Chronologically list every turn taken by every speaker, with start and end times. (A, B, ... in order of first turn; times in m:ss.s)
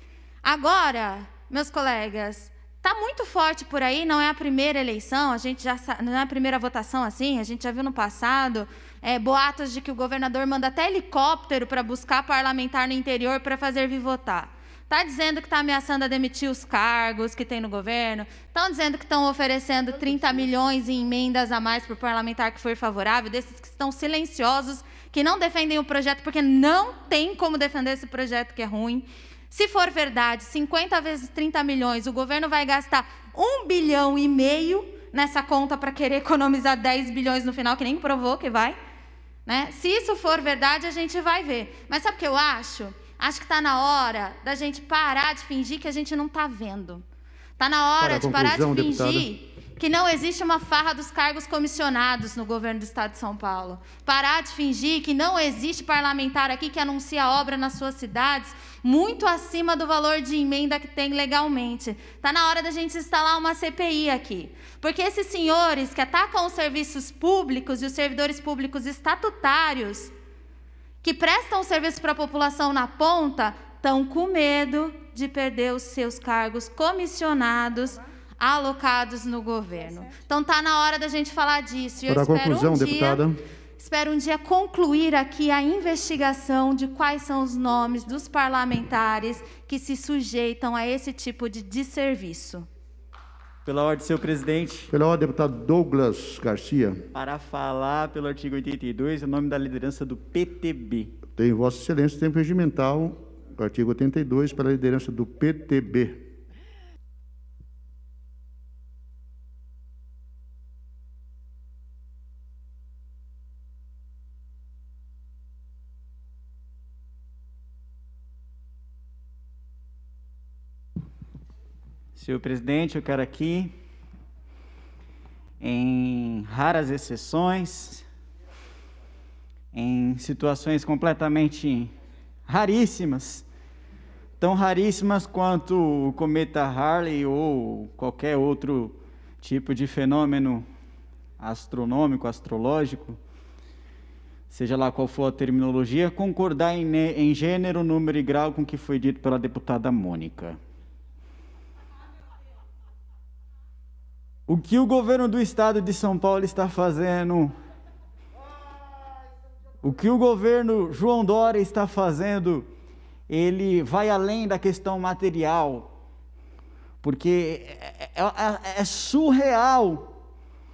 0:00.4-0:38.8 A
0:39.4-0:47.0 A
0:47.6-1:10.1 A
0:48.0-0:49.3 B
1:11.0-1:23.2 A
1:22.0-1:23.4 B
1:23.8-1:32.7 A
1:33.6-1:34.9 C
1:34.9-1:37.0 B
1:37.1-1:41.2 C
1:41.3-1:46.3 B
2:02.2-2:03.7 C
2:05.6-2:08.0 C
2:09.7-2:11.9 C
2:12.5-2:13.4 C
2:14.4-2:20.7 C
2:21.4-2:23.2 C
2:24.5-2:30.6 C
2:34.5-2:37.5 C
2:39.8-2:42.7 C
2:43.3-2:45.9 C
2:47.0-2:50.1 C